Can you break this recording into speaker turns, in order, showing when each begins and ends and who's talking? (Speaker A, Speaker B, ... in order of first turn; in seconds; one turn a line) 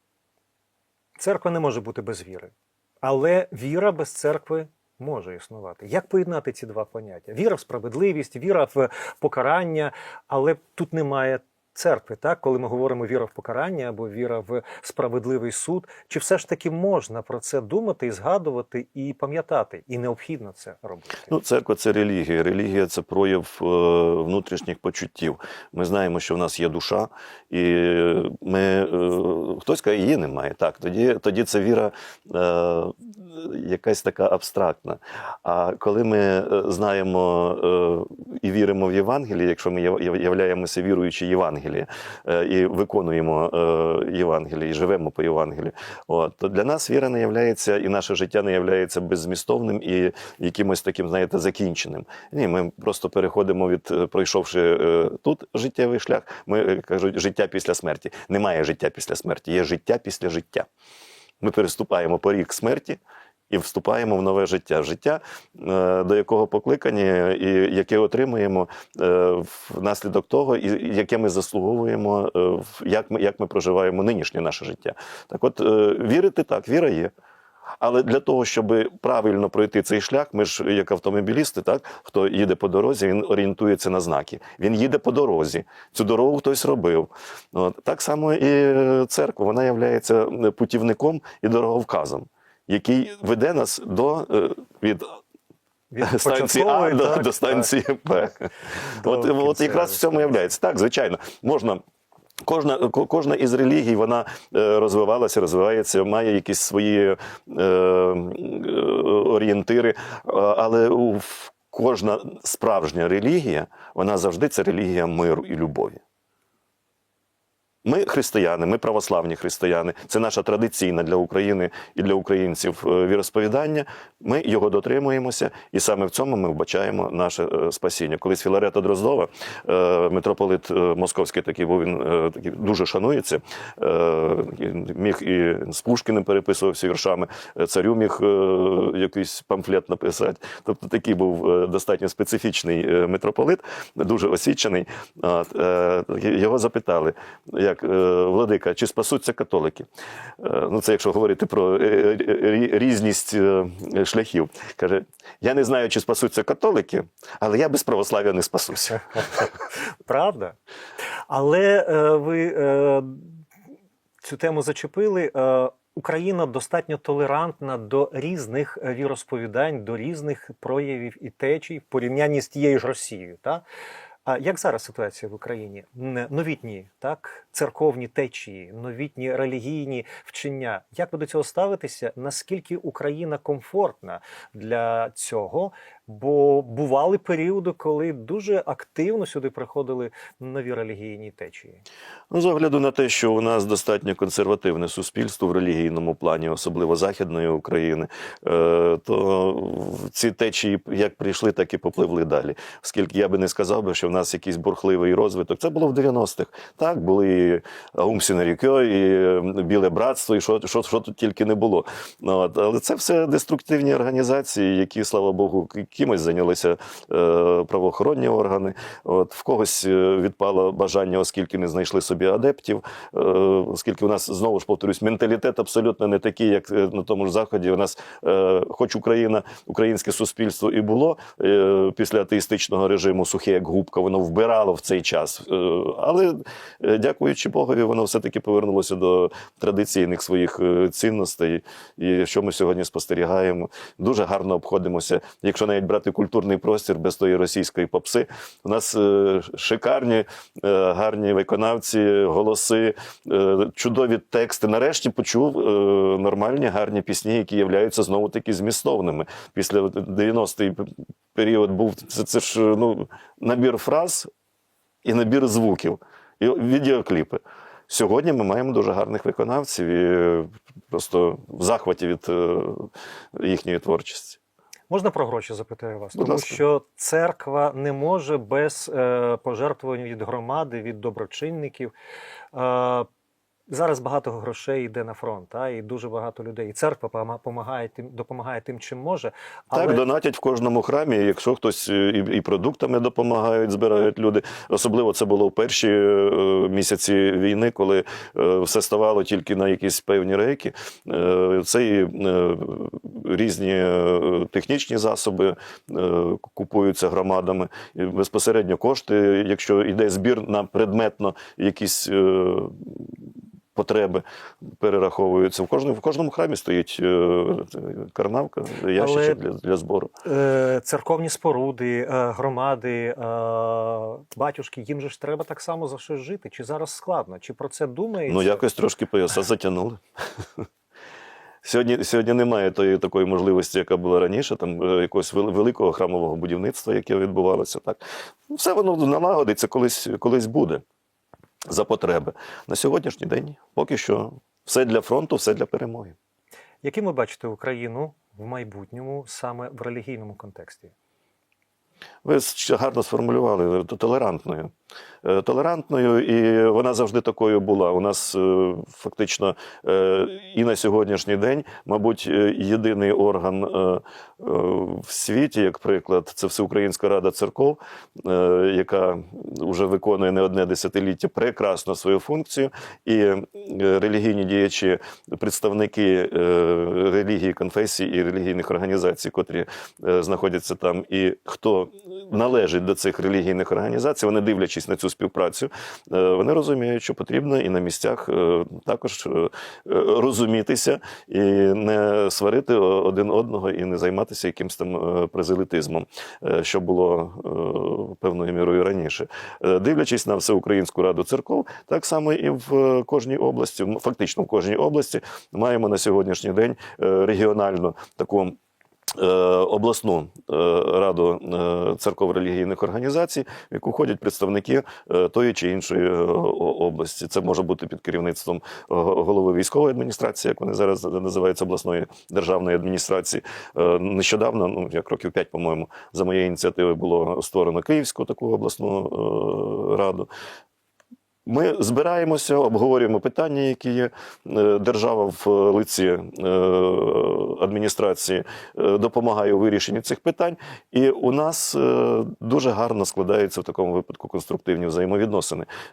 Speaker A: 1.2-21.3
Speaker B: 21.3-60.7
Speaker B: 61.4-77.1
Speaker B: 77.8-95.2
Speaker A: 95.9-97.7
Speaker B: 96.0-101.8
Speaker A: 99.0-100.1
Speaker B: 102.4-116.0
Speaker B: 117.8-149.9
Speaker B: 150.4-159.5
Speaker A: 160.0-160.6
Speaker A: 161.3-163.4
Speaker A: 164.2-173.6
Speaker A: 174.2-191.8
Speaker B: 192.3-264.3
Speaker B: 265.0-274.4
Speaker A: 274.9-281.9
Speaker B: 276.1-276.6
Speaker A: 282.5-283.1
Speaker A: 283.7-290.0
Speaker B: 289.7-313.1
Speaker B: 313.7-314.2
Speaker B: 314.8-320.1
Speaker A: 318.9-319.4
Speaker A: 320.2-328.6
Speaker B: 328.3-330.0
Speaker B: 331.6-338.0
Speaker B: 338.5-340.8
Speaker B: 341.7-346.1
Speaker A: 346.8-350.9
Speaker B: 352.2-354.7
Speaker B: 355.2-408.5
Speaker B: 409.1-430.3
Speaker B: 431.4-445.7